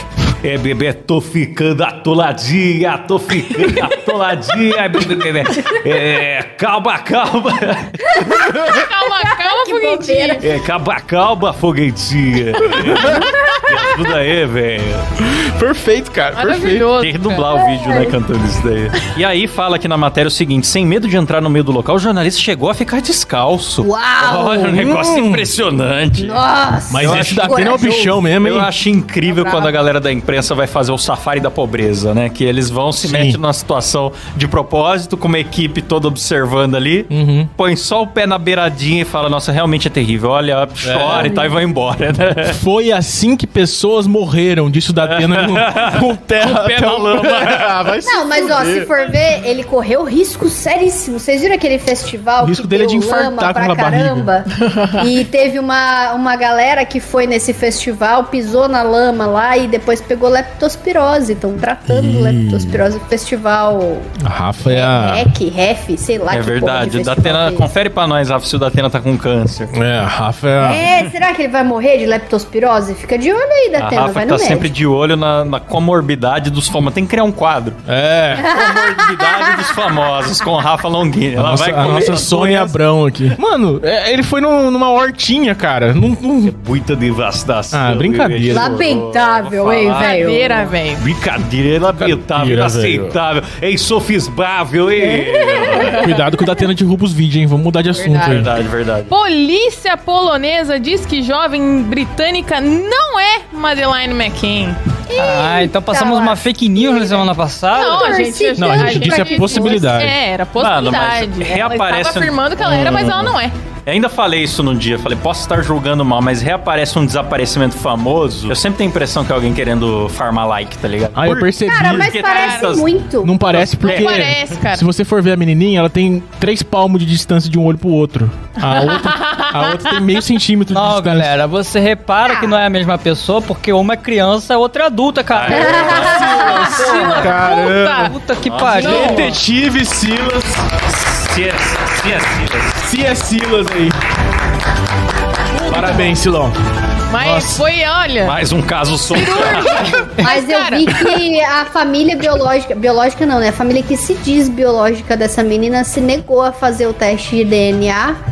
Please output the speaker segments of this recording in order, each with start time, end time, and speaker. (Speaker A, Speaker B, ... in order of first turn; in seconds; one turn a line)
Speaker A: 0.4-8.7
Speaker B: 8.1-10.5
Speaker C: 8.5-10.4
Speaker A: 10.4-15.0
Speaker D: 15.2-16.9
Speaker C: 16.3-17.4
Speaker A: 16.9-26.4
Speaker B: 17.5-18.1
Speaker B: 23.8-25.0
Speaker D: 24.9-25.5
Speaker B: 26.2-28.1
Speaker D: 26.9-28.7
Speaker A: 27.0-42.6
Speaker D: 33.0-33.4
Speaker D: 37.1-37.5
Speaker D: 40.8-41.4
Speaker B: 41.1-41.5
Speaker D: 42.5-48.9
Speaker A: 45.0-47.9
Speaker B: 48.0-64.1
Speaker D: 52.4-54.3
Speaker C: 54.6-55.0
Speaker D: 61.9-62.8
Speaker D: 64.2-65.3
Speaker B: 64.6-67.7
Speaker A: 66.3-69.7
Speaker D: 69.7-70.9
Speaker B: 70.6-74.7
Speaker A: 73.8-77.8
Speaker D: 77.9-78.5
Speaker B: 78.4-79.9
Speaker A: 78.4-82.8
Speaker D: 81.3-86.5
Speaker A: 86.4-90.3
Speaker D: 87.7-88.7
Speaker B: 88.5-90.7
Speaker C: 89.9-91.0
Speaker A: 91.0-96.1
Speaker D: 92.0-93.2
Speaker B: 95.0-96.2
Speaker D: 96.0-98.5
Speaker C: 98.0-98.4
Speaker A: 98.1-99.1
Speaker C: 99.1-104.8
Speaker B: 105.1-109.9
Speaker E: 105.1-108.2
Speaker C: 107.7-113.5
Speaker D: 108.5-110.2
Speaker A: 110.6-124.3
Speaker D: 121.1-122.2
Speaker B: 121.6-123.5
Speaker C: 122.2-122.8
Speaker D: 123.2-131.3
Speaker C: 123.8-124.8
Speaker C: 128.6-130.0
Speaker E: 130.7-139.3
Speaker B: 132.2-132.5
Speaker A: 135.3-136.3
Speaker B: 135.5-136.8
Speaker D: 135.8-138.1
Speaker C: 136.1-138.1
Speaker A: 138.4-139.4
Speaker D: 138.8-140.7
Speaker A: 140.9-142.8
Speaker D: 142.8-144.0
Speaker D: 145.6-146.6
Speaker C: 147.1-148.3
Speaker D: 147.2-147.6
Speaker A: 148.2-150.0
Speaker C: 149.1-151.0
Speaker B: 149.4-158.2